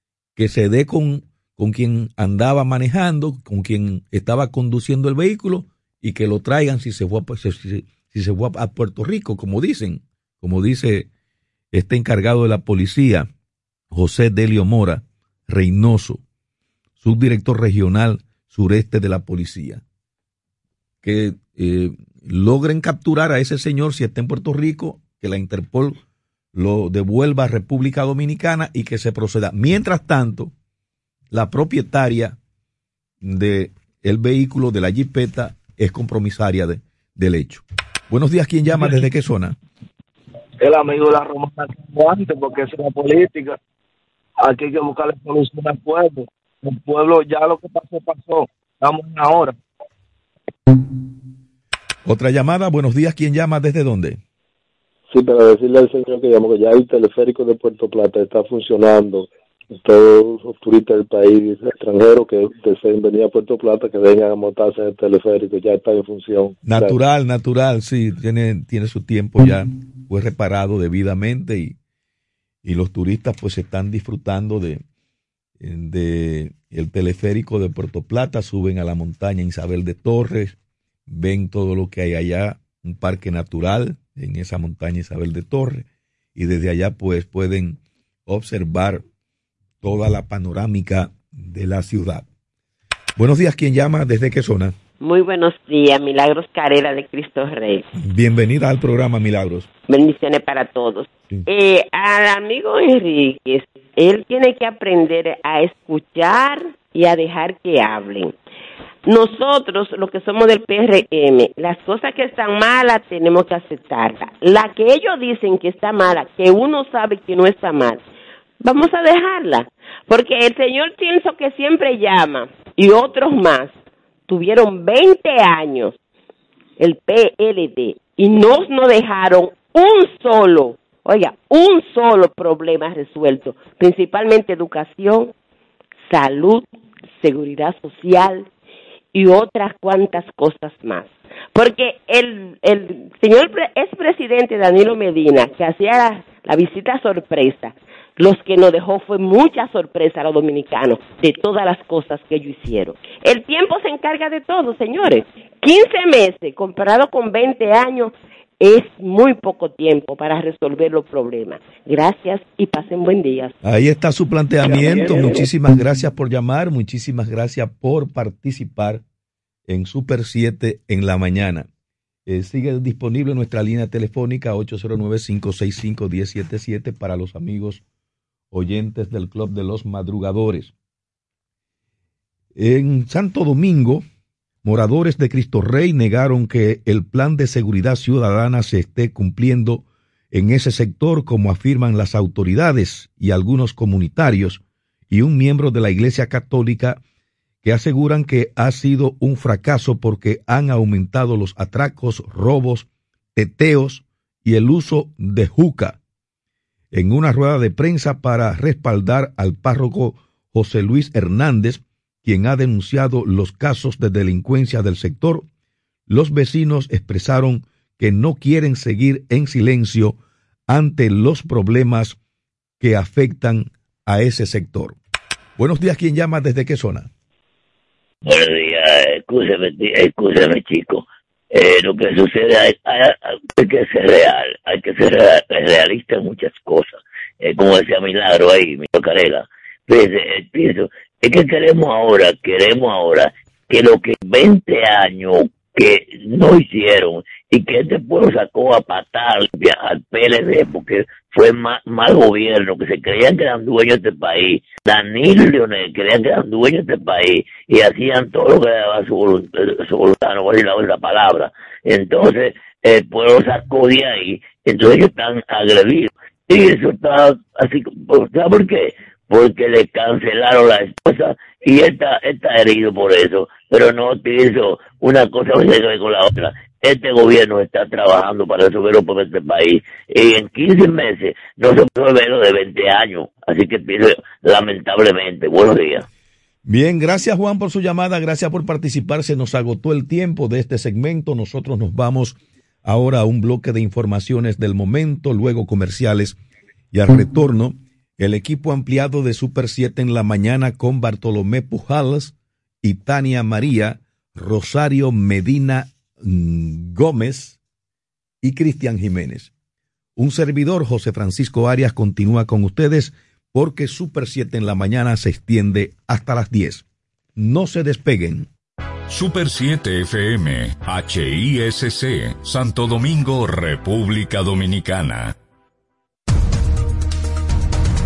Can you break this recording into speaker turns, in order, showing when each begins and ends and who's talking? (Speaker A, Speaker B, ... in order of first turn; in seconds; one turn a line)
Speaker A: 0.4-11.1
Speaker A: 11.7-13.3
Speaker A: 13.9-16.2
Speaker A: 17.0-19.8
Speaker A: 21.0-26.0
Speaker A: 26.5-30.5
Speaker A: 31.3-32.4
Speaker A: 33.2-39.6
Speaker B: 40.6-43.6
Speaker B: 44.4-49.6
Speaker A: 52.1-54.2
Speaker C: 55.1-67.0
Speaker A: 66.6-71.8
Speaker A: 72.6-74.8
Speaker A: 75.6-80.6
Speaker A: 81.1-89.0
Speaker A: 89.8-92.3
Speaker A: 93.2-94.8
Speaker D: 95.0-97.9
Speaker A: 97.9-99.7
Speaker D: 99.9-108.4
Speaker D: 109.0-118.0
Speaker D: 118.6-123.7
Speaker D: 124.3-126.0
Speaker D: 126.8-135.3
Speaker D: 136.1-136.7
Speaker D: 137.2-138.5
Speaker D: 139.1-163.5
Speaker A: 163.6-169.0
Speaker D: 164.7-165.0
Speaker A: 169.7-171.7
Speaker A: 172.3-177.8
Speaker A: 178.5-180.7
Speaker A: 182.6-184.0
Speaker A: 184.6-197.0
Speaker A: 197.6-206.0
Speaker A: 206.9-215.5
Speaker A: 216.1-222.2
Speaker A: 222.8-225.0
Speaker A: 225.6-227.1
Speaker E: 228.2-286.1
Speaker A: 286.6-296.4
Speaker A: 296.9-307.6
Speaker A: 308.4-309.5
Speaker A: 310.2-316.9
Speaker A: 317.4-318.5
Speaker F: 319.1-325.4